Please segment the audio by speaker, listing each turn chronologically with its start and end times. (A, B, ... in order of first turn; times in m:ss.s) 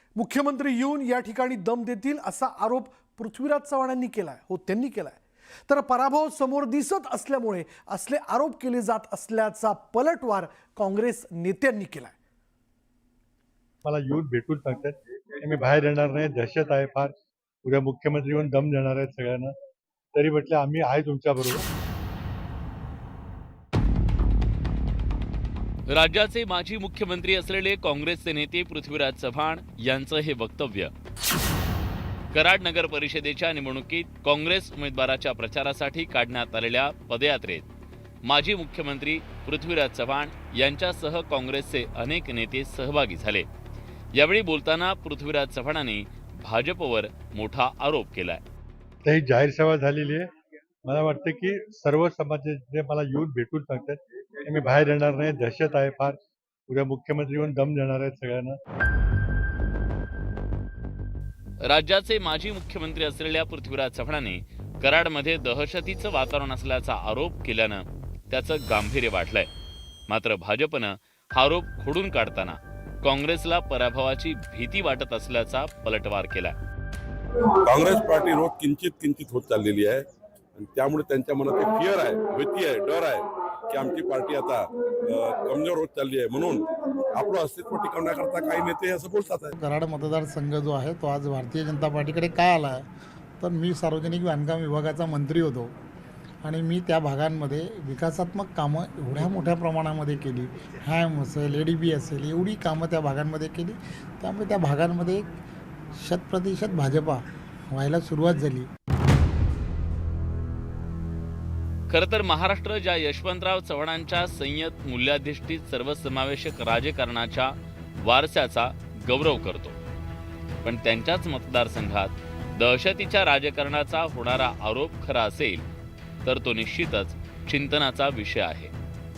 0:00.2-0:12.2 A
0:13.8-0:17.1 B
0:17.6-0:19.5 B
0:20.1-0:21.7 B
0:25.9-0:30.9 C
0:32.3-0:37.7 C
0:38.2-0:43.5 C
0:44.1-0:48.4 C
0:49.0-0:50.3 B
0:50.8-0:56.2 B
0:56.7-0:58.6 B
1:01.7-1:09.5 C
1:10.1-1:16.6 C
1:17.6-1:20.0 D
1:20.6-1:29.5 D
1:29.5-1:32.9 E
1:33.4-1:35.7 E
1:36.4-1:45.3 E
1:46.0-1:48.7 E
1:51.9-1:59.8 C
2:00.6-2:05.6 C
2:06.2-2:08.7 C